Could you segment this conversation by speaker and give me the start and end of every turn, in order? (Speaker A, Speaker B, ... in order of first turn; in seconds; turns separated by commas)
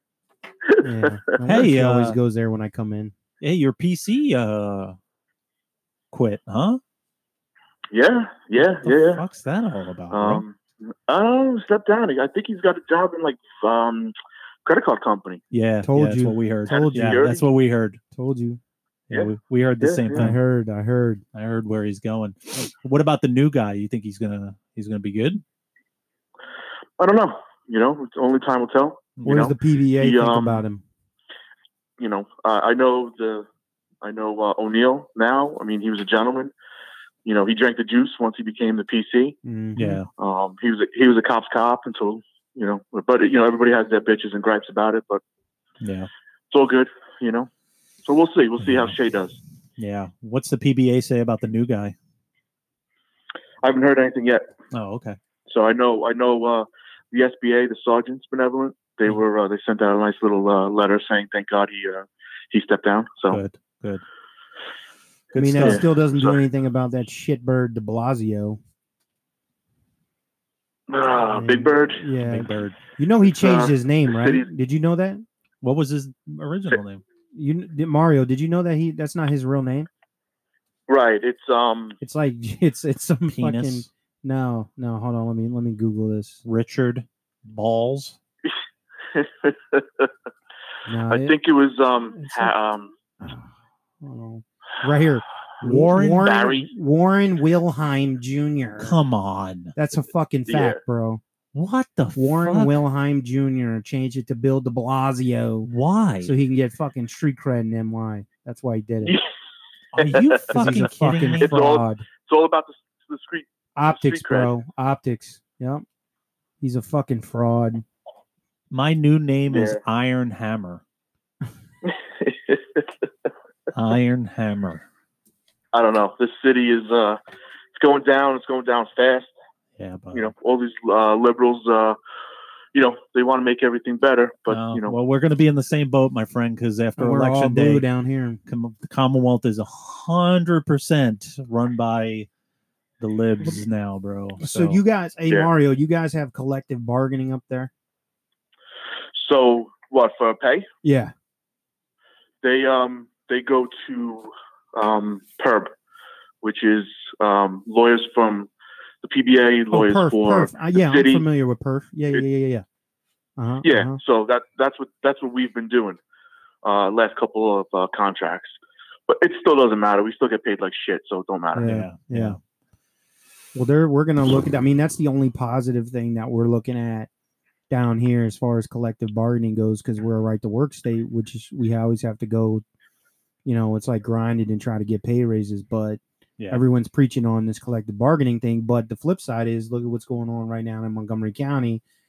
Speaker A: 0.7-1.4, Speaker B: 0.8-3.1, Speaker C: 1.4-2.2, Speaker C: 3.4-5.0, Speaker C: 6.1-6.8, Speaker A: 7.9-9.2, Speaker C: 8.6-10.4, Speaker A: 10.1-15.4, Speaker C: 15.5-18.0, Speaker B: 15.8-17.3, Speaker A: 16.7-17.4, Speaker B: 18.1-18.6, Speaker C: 19.1-20.4, Speaker A: 19.1-20.3, Speaker B: 20.1-21.2, Speaker C: 21.3-25.4, Speaker A: 27.0-30.6, Speaker C: 29.2-29.5, Speaker B: 29.2-30.8, Speaker A: 32.0-33.5, Speaker A: 34.0-36.5, Speaker A: 37.2-39.4, Speaker B: 39.4-40.0, Speaker C: 39.8-40.1, Speaker A: 40.2-45.2, Speaker C: 45.8-46.1, Speaker A: 46.5-47.5, Speaker A: 48.0-49.4, Speaker C: 48.6-49.0, Speaker C: 49.8-52.0, Speaker A: 53.6-54.5, Speaker C: 54.7-55.2, Speaker A: 55.5-63.4, Speaker C: 63.3-64.0, Speaker C: 65.3-65.9, Speaker B: 65.4-68.6, Speaker A: 65.6-66.4, Speaker A: 70.9-72.0, Speaker B: 71.3-75.2, Speaker C: 72.2-72.8, Speaker A: 73.3-74.5, Speaker C: 75.6-77.0, Speaker B: 77.3-79.9, Speaker A: 80.9-82.0, Speaker B: 82.0-86.4, Speaker C: 83.3-83.9, Speaker C: 86.5-88.2, Speaker A: 89.1-90.1, Speaker B: 90.9-91.4, Speaker A: 91.1-92.9, Speaker B: 92.1-92.5, Speaker B: 93.2-93.5, Speaker B: 94.0-99.0, Speaker C: 95.6-96.3, Speaker A: 96.2-96.7, Speaker C: 98.8-99.7, Speaker B: 99.8-101.2, Speaker A: 100.5-100.8, Speaker C: 101.5-102.7, Speaker B: 102.2-105.7, Speaker C: 105.7-106.3, Speaker B: 106.2-109.2, Speaker A: 109.0-109.3, Speaker C: 109.9-111.5, Speaker A: 110.0-110.6, Speaker B: 110.5-112.1, Speaker A: 111.4-114.5, Speaker B: 113.8-115.8, Speaker B: 116.6-117.8, Speaker C: 118.7-120.8, Speaker A: 119.5-119.8, Speaker A: 121.8-123.0, Speaker C: 123.7-124.8, Speaker A: 125.7-127.2, Speaker A: 127.8-129.3, Speaker C: 129.8-130.3, Speaker A: 130.1-132.0, Speaker A: 132.7-135.0, Speaker C: 134.5-137.8, Speaker B: 137.0-138.4, Speaker C: 138.5-142.3, Speaker C: 143.0-144.8, Speaker B: 144.4-147.7, Speaker A: 149.1-150.7, Speaker B: 150.8-151.1, Speaker A: 152.4-155.7, Speaker A: 156.4-158.5, Speaker A: 159.0-161.2, Speaker B: 159.7-162.7, Speaker B: 163.4-164.0, Speaker A: 163.6-166.0, Speaker A: 166.6-168.5, Speaker A: 169.1-171.7, Speaker B: 171.6-172.4, Speaker C: 171.6-172.4, Speaker B: 173.6-177.1, Speaker B: 177.7-182.6, Speaker B: 183.4-191.8